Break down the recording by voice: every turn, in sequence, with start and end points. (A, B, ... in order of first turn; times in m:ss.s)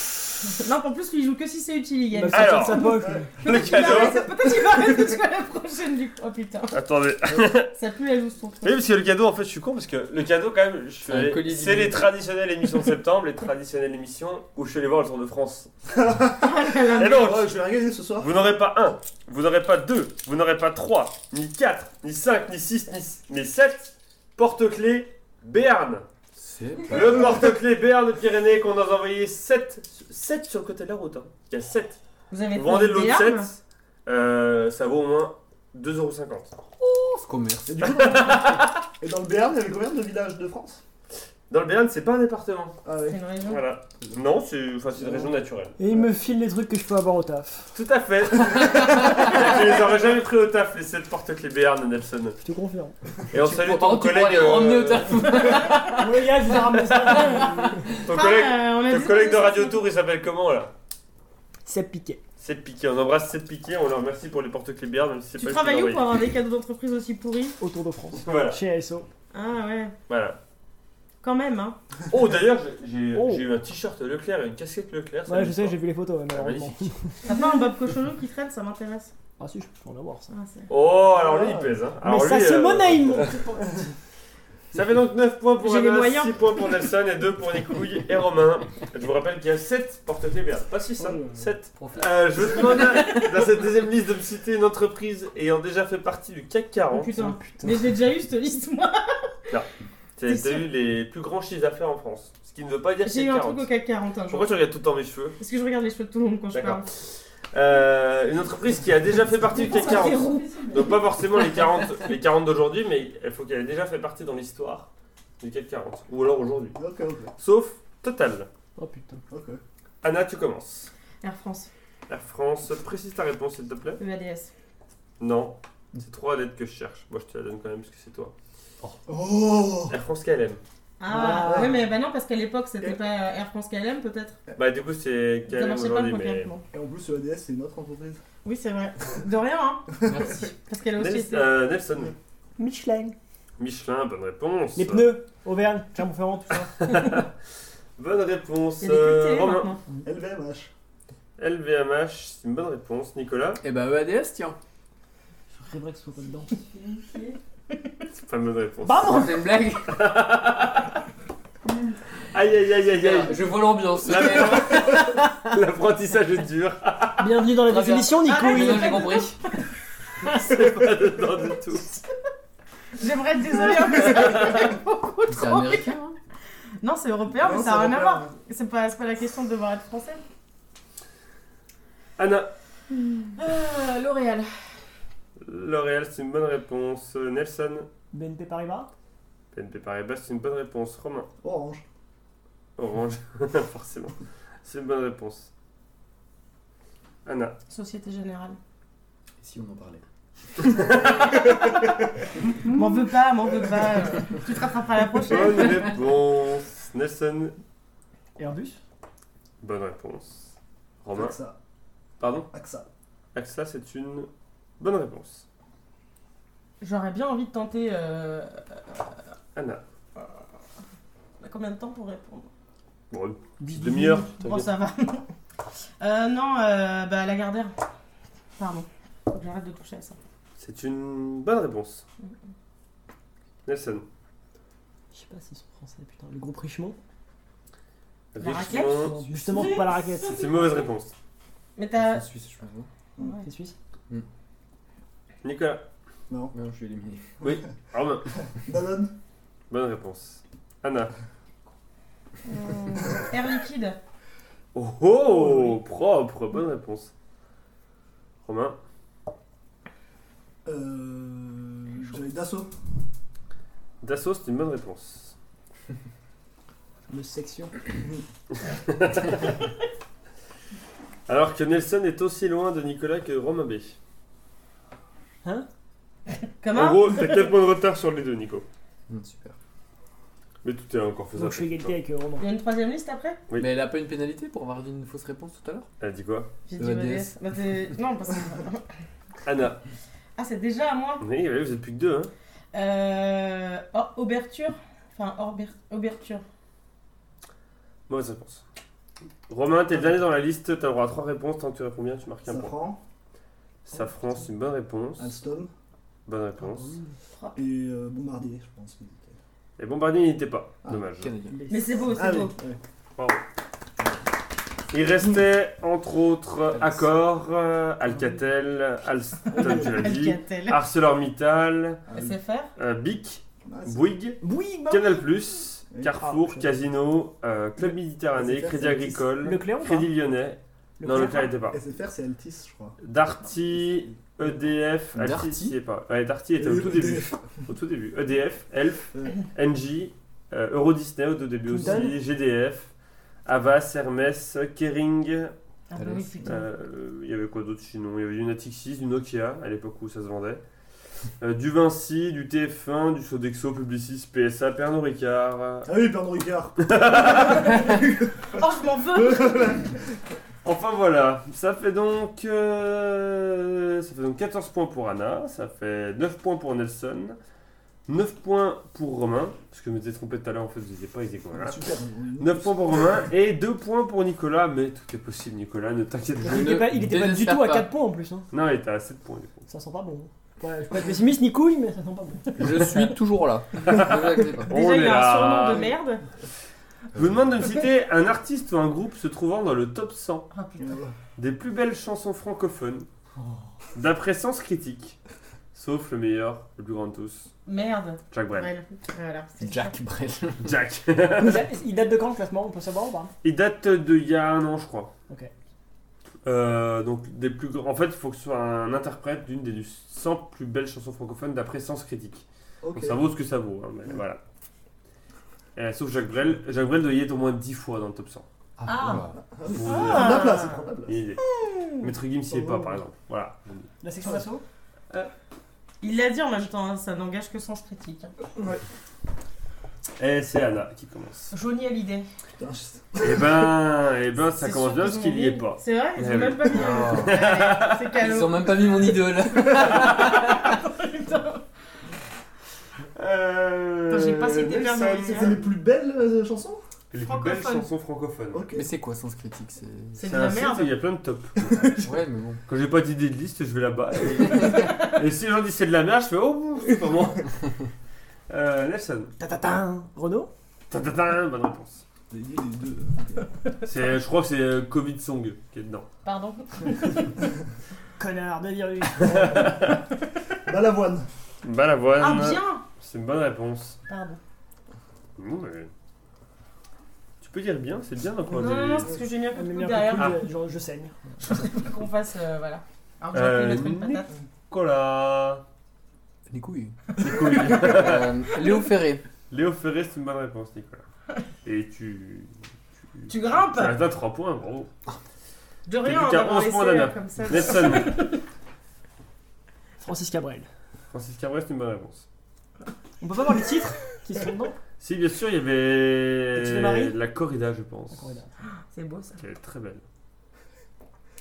0:00.4-0:06.8 A
0:02.1-0:03.4 B
0:02.3-0:04.2 C
0:03.0-0:05.1 D
0:06.7-0:07.7 C
0:07.7-0:08.8 A
0:08.6-0:15.7 C
0:11.1-0:12.1 E
0:16.0-0:18.3 D
0:16.4-0:17.3 A
0:16.9-0:17.5 C
0:18.2-0:26.1 C
0:26.4-0:27.4 E
0:26.9-0:32.0 C
0:32.3-0:33.5 A
0:32.5-0:36.5 C
0:36.8-0:37.8 E
0:37.7-0:40.8 D
0:37.8-0:38.8 C
0:41.5-0:42.8 C
0:42.8-0:43.2 D
0:43.0-0:43.6 A
0:43.4-0:45.8 C
0:45.0-0:45.3 D
0:45.8-0:47.7 B
0:47.7-0:52.4 C
0:52.4-0:53.0 B
0:53.3-0:55.9 C
0:53.4-0:58.0 E
0:55.9-0:58.0 B
0:56.9-0:57.4 C
0:58.0-1:00.7 C
0:58.1-0:59.8 A
1:01.6-1:02.2 B
1:02.4-1:06.1 C
1:05.4-1:07.6 A
1:07.6-1:09.1 B
1:08.1-1:08.6 C
1:09.3-1:09.9 A
1:10.1-1:10.4 C
1:11.2-1:11.8 A
1:12.1-1:16.9 C
1:13.1-1:13.4 B
1:15.3-1:17.3 B
1:17.2-1:19.1 A
1:19.4-1:20.3 B
1:20.3-1:20.7 A
1:20.7-1:23.4 C
1:21.1-1:21.8 D
1:22.0-1:23.9 B
1:24.7-1:37.3 C
1:25.6-1:26.4 A
1:31.0-1:31.4 D
1:31.8-1:33.2 E
1:36.9-1:39.1 A
1:37.1-1:37.9 B
1:39.5-1:43.7 C
1:40.2-1:40.7 A
1:43.0-1:44.6 A
1:44.3-1:45.4 C
1:45.4-1:46.9 A
1:46.5-1:54.9 C
1:49.5-1:51.0 A
1:50.0-1:50.6 B
1:55.4-1:56.8 C
1:56.8-1:57.3 D
1:57.4-1:58.5 C
1:58.8-1:59.2 B
1:59.3-1:59.6 D
2:00.0-2:00.9 C
2:01.2-2:01.7 A
2:02.1-2:04.0 C
2:04.0-2:04.5 A
2:05.2-2:08.3 C
2:09.1-2:10.0 D
2:09.9-2:10.6 C
2:11.0-2:14.4 A
2:11.1-2:11.9 D
2:11.2-2:11.7 B
2:14.6-2:16.5 C
2:15.5-2:16.6 A
2:16.7-2:18.2 D
2:18.4-2:19.9 A
2:20.0-2:20.5 E
2:20.6-2:21.5 A
2:21.0-2:22.2 C
2:22.6-2:23.2 B
2:23.6-2:25.1 C
2:24.8-2:27.2 B
2:26.8-2:27.3 C
2:28.0-2:29.7 C
2:28.8-2:29.8 A
2:30.0-2:30.7 D
2:31.4-2:33.6 C
2:33.6-2:34.6 E
2:35.6-2:36.6 B
2:38.1-2:41.0 C
2:38.8-2:39.3 B
2:39.0-2:39.9 E
2:42.3-2:43.4 C
2:43.0-2:45.0 E
2:44.0-2:47.5 C
2:47.2-2:49.2 B
2:47.7-2:49.4 E
2:48.2-2:49.6 A
2:50.2-2:51.9 C
2:53.0-2:56.0 A
2:54.0-2:54.7 C
2:55.3-2:56.1 E
2:56.8-3:00.2 A
2:57.4-2:58.3 D
3:02.2-3:02.5 C
3:03.4-3:04.5 A
3:05.4-3:07.9 C
3:08.1-3:08.9 B
3:09.5-3:11.3 C
3:11.4-3:11.8 D
3:12.8-3:15.5 C
3:17.2-3:17.6 C
3:17.7-3:18.6 A
3:19.4-3:20.0 E
3:20.6-3:21.7 C
3:21.3-3:21.7 A
3:22.6-3:25.8 A
3:22.7-3:23.0 D
3:25.3-3:27.5 C
3:28.4-3:28.8 B
3:29.6-3:30.5 C
3:31.0-3:31.4 C
3:31.1-3:31.6 D
3:32.2-3:32.5 C
3:32.5-3:32.9 D
3:33.3-3:35.4 C
3:36.8-3:39.2 A
3:39.6-3:39.8 C
3:41.4-3:42.5 A
3:43.1-3:44.5 C
3:43.6-3:44.3 B
3:44.4-3:45.3 A
3:46.0-3:47.8 A
3:48.6-3:50.2 A
3:50.6-3:52.0 C
3:53.6-3:54.0 C
3:55.1-3:57.0 B
3:58.3-3:59.2 C
3:58.4-3:59.2 A
3:58.7-4:00.4 B
4:00.2-4:01.1 C
4:01.8-4:02.3 A
4:02.0-4:02.9 E
4:03.2-4:03.5 A
4:03.4-4:03.8 B
4:05.4-4:05.8 C
4:06.5-4:07.3 E
4:07.4-4:08.3 C
4:08.5-4:09.1 D
4:09.7-4:11.1 C
4:12.4-4:14.0 A
4:14.7-4:17.1 C
4:15.4-4:15.7 D
4:18.4-4:18.8 C
4:20.7-4:22.7 D
4:24.0-4:25.4 C
4:27.1-4:27.8 B
4:28.7-4:29.6 C
4:31.3-4:34.0 C
4:36.6-4:37.5 A
4:36.7-4:38.6 C
4:39.1-4:39.6 E
4:40.6-4:42.0 C
4:41.3-4:42.5 B
4:42.4-4:43.4 A
4:43.6-4:45.9 E
4:46.0-4:46.5 C
4:46.7-4:48.9 A
4:46.8-4:47.3 E
4:49.4-4:49.8 C
4:50.4-4:51.2 A
4:51.2-4:52.3 C
4:52.7-4:56.4 A
4:58.1-4:58.6 C
4:59.5-5:02.7 C
5:02.5-5:03.0 D
5:03.8-5:05.3 C
5:05.2-5:05.7 D
5:06.3-5:07.0 C
5:06.7-5:07.0 B
5:07.6-5:09.4 D
5:09.8-5:11.3 C
5:11.2-5:11.6 E
5:11.5-5:12.1 B
5:11.7-5:12.5 A
5:12.1-5:12.8 D
5:14.9-5:22.0 C
5:16.7-5:17.0 E
5:18.1-5:18.4 B
5:19.5-5:20.0 D
5:19.6-5:20.8 A
5:22.1-5:22.4 D
5:22.1-5:22.7 A
5:22.8-5:31.8 C
5:23.6-5:24.1 D
5:24.4-5:25.3 B
5:26.2-5:26.7 B
5:27.8-5:29.2 D
5:29.4-5:30.1 B
5:31.0-5:31.6 B
5:31.7-5:33.0 D
5:33.0-5:42.9 C
5:35.1-5:35.8 E
5:36.6-5:37.4 D
5:41.7-5:42.2 B
5:41.8-5:42.2 D
5:43.4-5:45.5 C
5:45.9-5:46.6 A
5:46.0-5:46.3 E
5:46.4-5:50.6 C
5:51.4-5:55.9 C
5:55.8-5:58.6 D
5:56.8-5:57.9 C
5:58.5-5:59.7 A
5:59.1-6:00.2 D
6:00.6-6:07.4 C
6:08.1-6:11.8 C
6:11.5-6:13.3 D
6:12.4-6:16.8 C
6:16.4-6:18.5 B
6:16.5-6:17.9 E
6:18.5-6:19.6 C
6:19.7-6:23.0 B
6:22.6-6:24.7 E
6:23.8-6:26.0 C
6:24.7-6:26.2 A
6:27.1-6:30.5 C
6:30.5-6:31.0 A
6:30.8-6:31.2 D
6:31.4-6:33.1 C
6:34.0-6:35.2 C
6:35.7-6:37.5 C
6:37.7-6:40.0 A
6:38.3-6:38.7 C
6:39.6-6:40.7 E
6:40.6-6:41.7 C
6:41.4-6:43.3 B
6:43.4-6:45.1 C
6:46.4-6:54.4 C
6:52.8-6:53.2 D
6:55.8-6:58.5 C
6:58.8-6:59.4 E
6:58.9-6:59.2 A
6:59.4-7:01.2 D
6:59.7-7:01.4 C
6:59.8-7:00.8 A
7:01.5-7:02.1 A
7:02.0-7:03.9 C
7:02.5-7:03.0 D
7:04.0-7:04.6 B
7:06.0-7:08.3 A
7:08.6-7:08.8 D
7:10.2-7:11.5 C
7:11.5-7:12.3 A
7:12.6-7:13.7 D
7:13.2-7:18.1 C
7:14.6-7:21.6 A
7:16.7-7:17.4 E
7:18.2-7:20.8 E
7:23.2-7:25.6 C
7:24.1-7:25.6 A
7:25.2-7:26.8 D
7:27.1-7:28.7 C
7:27.2-7:27.9 A
7:28.5-7:28.9 D
7:28.7-7:30.2 E
7:30.2-7:30.9 A
7:30.2-7:32.1 C
7:32.0-7:32.6 E
7:32.7-7:37.6 C
7:38.5-7:39.3 C
7:39.4-7:40.5 B
7:40.9-7:42.0 C
7:42.3-7:43.5 D
7:43.8-7:46.1 C
7:46.2-7:47.3 A
7:48.2-7:50.0 B
7:49.2-7:50.0 C
7:50.7-7:51.3 D
7:51.6-7:54.0 C
7:52.2-7:52.8 A
7:54.1-7:54.4 A
7:55.4-7:55.9 C
7:57.4-7:59.2 C
7:58.5-8:00.4 A
7:59.5-8:01.5 B
8:01.4-8:04.3 A
8:03.3-8:05.6 C
8:06.5-8:09.2 E
8:07.2-8:08.4 C
8:09.5-8:11.0 C
8:11.6-8:12.5 C
8:13.2-8:14.9 C
8:13.3-8:14.0 A
8:15.9-8:18.4 A
8:16.0-8:18.2 C
8:20.0-8:20.7 B
8:21.1-8:22.3 C
8:23.2-8:24.8 B
8:25.0-8:28.3 C
8:26.5-8:27.2 B
8:28.1-8:28.5 B
8:28.9-8:29.4 A
8:29.4-8:30.0 C